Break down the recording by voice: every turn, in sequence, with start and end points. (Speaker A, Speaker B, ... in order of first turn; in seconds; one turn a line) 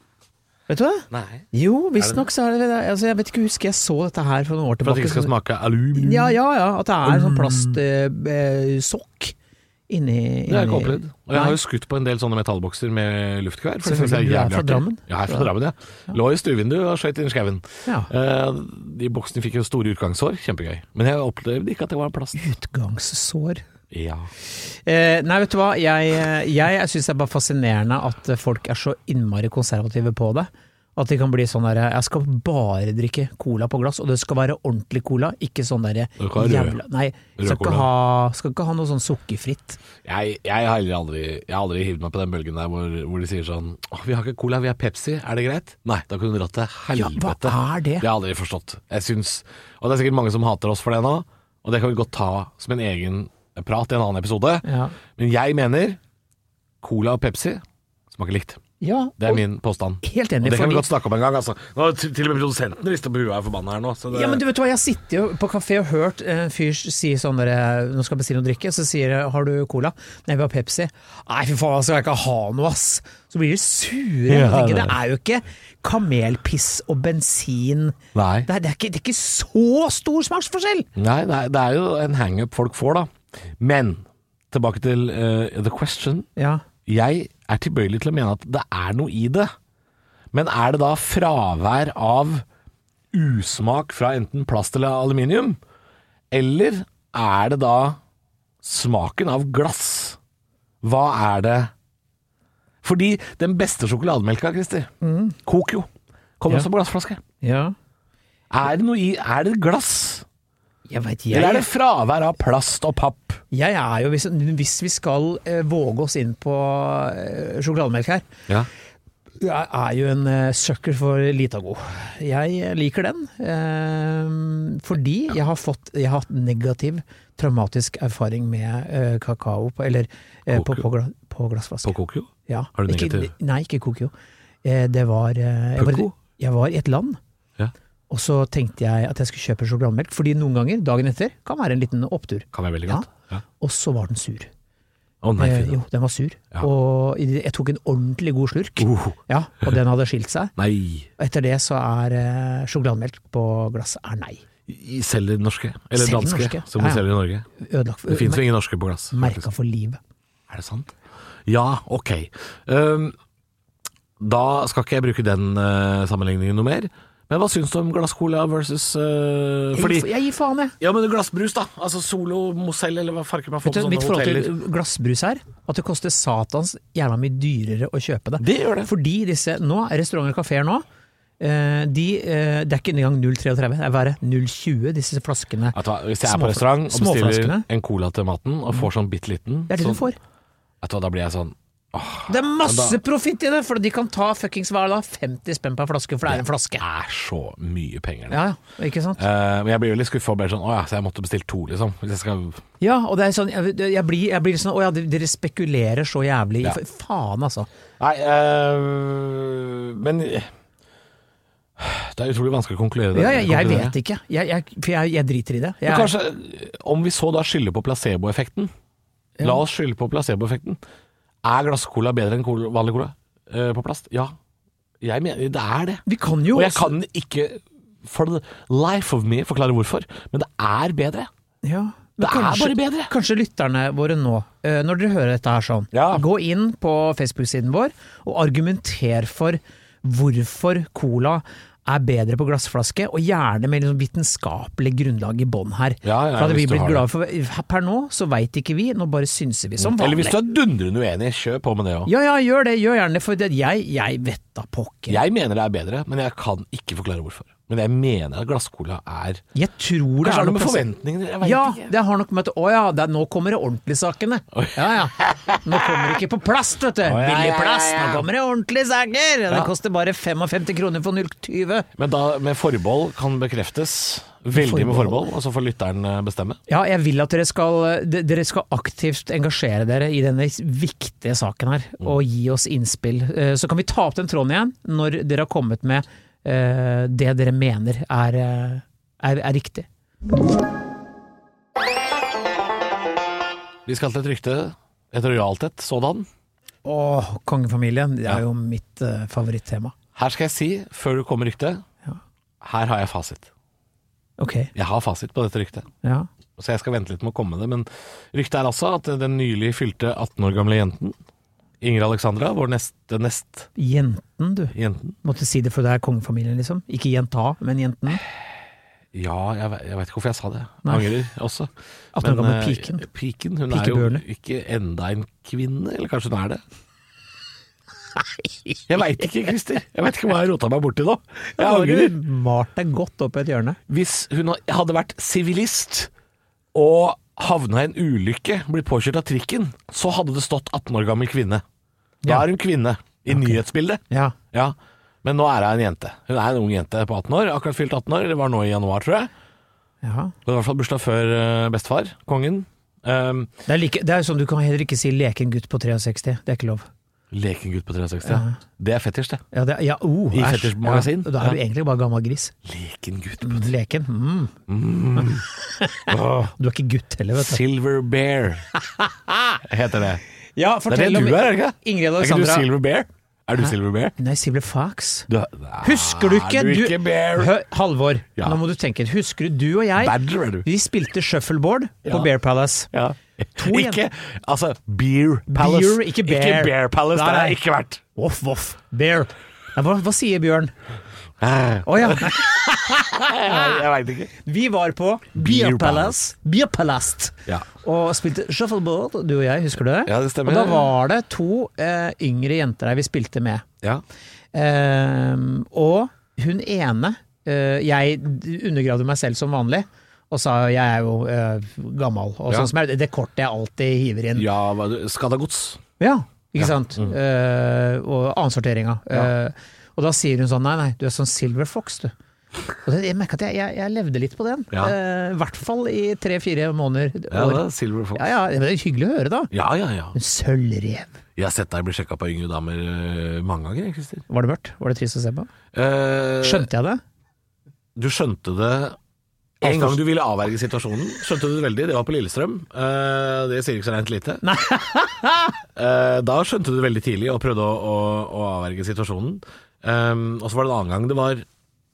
Speaker A: 0.7-5.3
Speaker B: 1.1-1.5
Speaker B: 2.0-2.3
Speaker B: 4.8-6.4
Speaker A: 5.9-9.3
Speaker B: 7.0-7.8
Speaker A: 9.9-11.6
Speaker B: 10.5-22.4
Speaker A: 13.8-15.5
Speaker A: 22.4-23.6
Speaker B: 23.9-24.3
Speaker A: 24.6-39.8
Speaker B: 36.2-36.8
Speaker B: 37.4-37.9
Speaker B: 40.0-56.0
Speaker A: 47.0-48.1
Speaker A: 54.6-55.0
Speaker B: 56.8-58.6
Speaker A: 58.8-59.4
Speaker B: 59.2-64.4
Speaker A: 60.0-60.9
Speaker A: 64.1-80.9
Speaker B: 74.3-75.0
Speaker B: 78.1-78.5
Speaker B: 81.0-86.3
Speaker A: 86.4-86.6
Speaker B: 86.9-89.5
Speaker B: 90.3-92.5
Speaker B: 93.1-95.6
Speaker B: 96.3-98.0
Speaker B: 98.6-100.2
Speaker B: 100.8-101.7
Speaker B: 102.8-104.9
Speaker A: 105.0-105.4
Speaker B: 105.4-105.9
Speaker B: 106.4-107.2
Speaker A: 107.4-107.8
Speaker B: 108.5-110.3
Speaker A: 110.9-111.7
Speaker B: 111.3-113.4
Speaker A: 113.5-118.3
Speaker A: 119.4-134.1
Speaker B: 130.5-130.8
Speaker B: 131.8-133.3
Speaker A: 134.6-137.2
Speaker B: 135.8-136.1
Speaker A: 138.1-143.1
Speaker B: 142.5-143.4
Speaker A: 143.6-144.5
Speaker B: 145.2-145.8
Speaker A: 145.4-150.5
Speaker B: 148.8-149.2
Speaker B: 150.6-151.1
Speaker A: 151.2-154.4
Speaker B: 154.7-157.5
Speaker A: 155.9-157.1
Speaker A: 157.6-158.5
Speaker B: 158.1-159.4
Speaker A: 159.1-160.0
Speaker B: 160.5-160.9
Speaker B: 161.5-163.2
Speaker B: 164.2-170.1
Speaker A: 169.7-170.8
Speaker B: 170.8-174.5
Speaker A: 173.6-180.8
Speaker B: 178.4-178.9
Speaker A: 181.4-187.7
Speaker B: 185.7-190.1
Speaker A: 189.7-190.2
Speaker B: 190.8-193.0
Speaker A: 192.3-196.8
Speaker B: 196.3-198.4
Speaker A: 198.3-199.2
Speaker B: 199.2-202.6
Speaker A: 202.8-207.7
Speaker B: 208.0-210.5
Speaker B: 211.8-213.9
Speaker A: 213.1-216.1
Speaker B: 215.8-218.7
Speaker B: 219.4-220.8
Speaker B: 221.4-224.4
Speaker B: 225.0-231.3
Speaker A: 226.1-226.9
Speaker A: 231.6-250.4
Speaker B: 232.2-233.1
Speaker B: 235.9-236.2
Speaker B: 246.0-247.1
Speaker B: 249.8-252.1
Speaker A: 252.1-255.2
Speaker B: 255.1-259.4
Speaker A: 259.5-260.9
Speaker B: 260.2-261.9
Speaker A: 261.4-271.9
Speaker B: 264.5-266.1
Speaker B: 267.0-268.3
Speaker B: 272.0-276.6
Speaker A: 274.5-275.2
Speaker A: 276.7-289.9
Speaker B: 293.9-296.3
Speaker A: 296.9-299.9
Speaker B: 300.1-301.8
Speaker B: 302.6-303.5
Speaker A: 304.4-304.7
Speaker B: 304.8-305.9
Speaker A: 306.0-306.3
Speaker B: 306.6-311.2
Speaker B: 311.8-313.7
Speaker A: 313.8-318.2
Speaker B: 314.7-315.2
Speaker B: 319.1-326.6
Speaker A: 320.8-321.1
Speaker A: 322.1-323.1
Speaker A: 323.7-324.2
Speaker B: 328.9-332.2
Speaker A: 331.5-333.8
Speaker B: 333.9-336.1
Speaker B: 336.7-341.6
Speaker B: 342.3-349.3
Speaker A: 343.3-343.6
Speaker A: 344.1-344.4
Speaker A: 350.0-350.4
Speaker B: 350.5-353.5
Speaker A: 353.7-356.9
Speaker B: 357.3-359.4
Speaker A: 358.2-358.6
Speaker A: 359.5-362.6
Speaker B: 360.3-361.6
Speaker B: 362.6-363.7
Speaker A: 363.4-364.6
Speaker B: 364.7-365.5
Speaker A: 365.2-367.6
Speaker B: 366.1-366.5
Speaker B: 367.3-368.7
Speaker A: 368.8-369.6
Speaker B: 369.6-370.2
Speaker A: 370.6-372.7
Speaker B: 370.9-374.1
Speaker A: 373.7-375.3
Speaker B: 375.3-377.5
Speaker A: 375.8-382.9
Speaker B: 380.0-380.7
Speaker B: 382.9-388.0
Speaker A: 383.6-384.0
Speaker A: 385.5-387.6
Speaker A: 388.1-390.7
Speaker B: 391.4-394.3
Speaker A: 391.9-393.8
Speaker A: 394.4-403.7
Speaker B: 395.4-396.2
Speaker B: 400.1-400.9
Speaker A: 404.5-414.5
Speaker B: 414.4-415.8
Speaker A: 416.0-422.1
Speaker B: 416.6-417.1
Speaker A: 422.8-429.5
Speaker B: 427.3-428.3
Speaker B: 429.5-430.2
Speaker A: 430.1-431.2
Speaker B: 431.4-434.2
Speaker A: 434.3-435.5
Speaker B: 435.7-436.7
Speaker A: 436.4-437.0
Speaker B: 438.0-439.0
Speaker A: 439.6-440.0
Speaker B: 439.6-444.4
Speaker A: 444.4-445.6
Speaker B: 445.8-451.5